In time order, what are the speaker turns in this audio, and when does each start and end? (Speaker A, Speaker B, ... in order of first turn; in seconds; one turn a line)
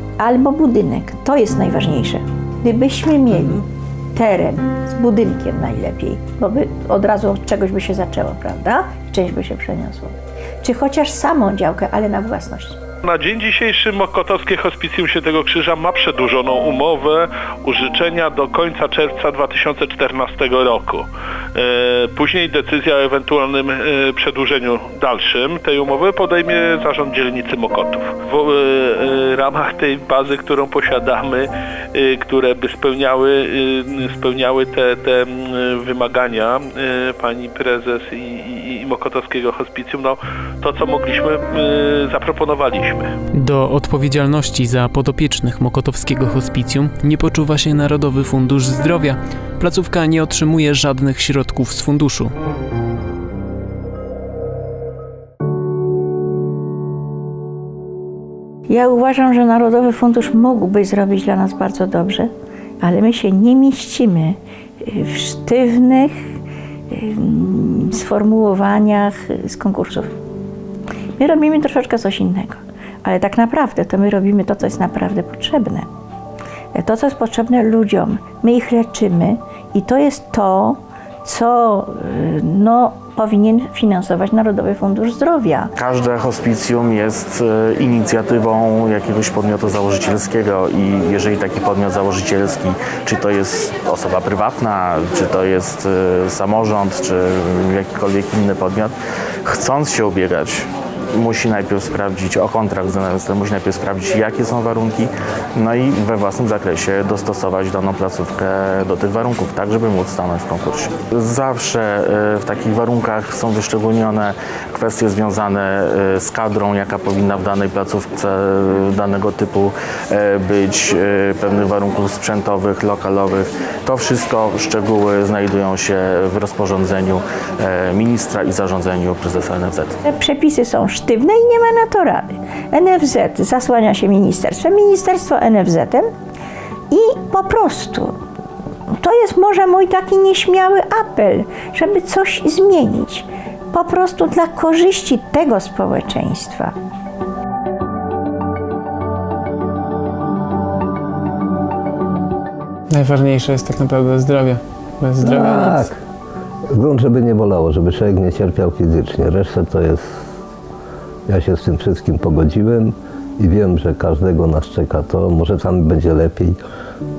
Speaker A: 0.2-12.8
Speaker B: 13.0-43.1
Speaker C: 43.3-52.3
Speaker A: 58.7-66.3
Speaker A: 66.9-70.1
Speaker A: 71.2-75.9
Speaker A: 76.7-85.7
Speaker D: 85.8-98.9
Speaker D: 99.4-100.7
Speaker D: 101.2-130.0
Speaker A: 130.0-136.1
Speaker A: 136.9-138.1
Speaker A: 139.0-146.7
Speaker C: 152.9-155.7
Speaker E: 155.2-156.0
Speaker E: 156.7-160.2
Speaker E: 161.3-166.6